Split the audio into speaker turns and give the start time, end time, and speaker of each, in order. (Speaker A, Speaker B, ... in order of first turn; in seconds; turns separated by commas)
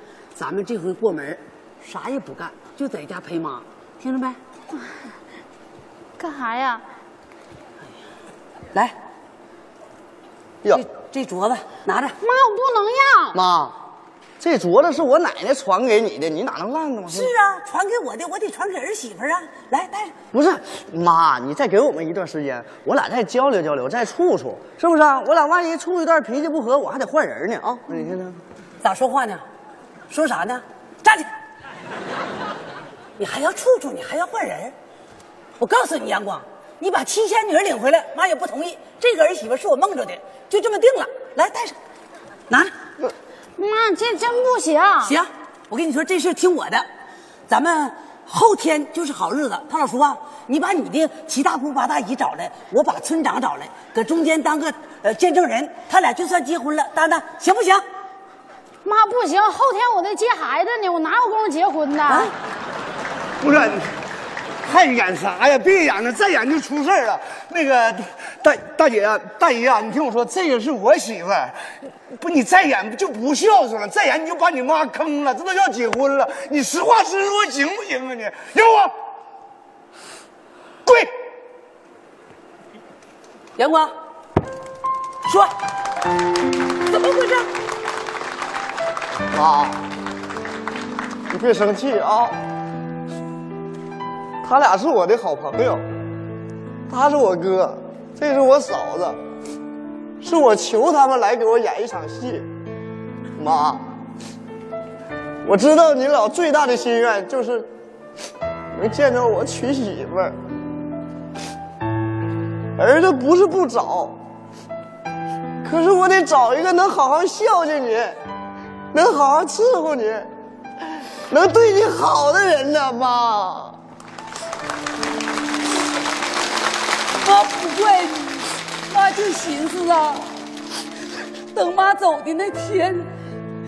Speaker A: 0.4-4.4, Speaker B: 6.2-6.8, Speaker A: 10.7-12.2, Speaker B: 12.2-13.4, Speaker C: 13.3-13.8, Speaker C: 14.4-17.3, Speaker A: 17.1-20.1, Speaker C: 20.3-28.4, Speaker A: 28.8-29.4, Speaker A: 30.1-31.3, Speaker A: 33.2-34.8, Speaker A: 35.6-41.8, Speaker B: 43.6-45.2, Speaker A: 45.0-46.9, Speaker A: 47.5-57.8, Speaker B: 58.9-62.3, Speaker A: 62.1-62.3, Speaker D: 63.4-64.0, Speaker D: 64.6-79.0, Speaker D: 80.9-81.1, Speaker A: 83.6-84.0, Speaker A: 85.2-85.5, Speaker A: 86.9-87.5, Speaker C: 89.3-89.8, Speaker C: 91.3-92.4, Speaker C: 94.4-95.8, Speaker C: 96.9-99.2, Speaker C: 100.2-102.5, Speaker C: 103.4-103.9, Speaker C: 105.4-107.7, Speaker C: 108.7-110.4, Speaker C: 112.8-114.2, Speaker C: 115.6-118.2, Speaker C: 118.9-120.3, Speaker C: 121.3-123.8, Speaker A: 127.2-130.3, Speaker A: 131.5-133.1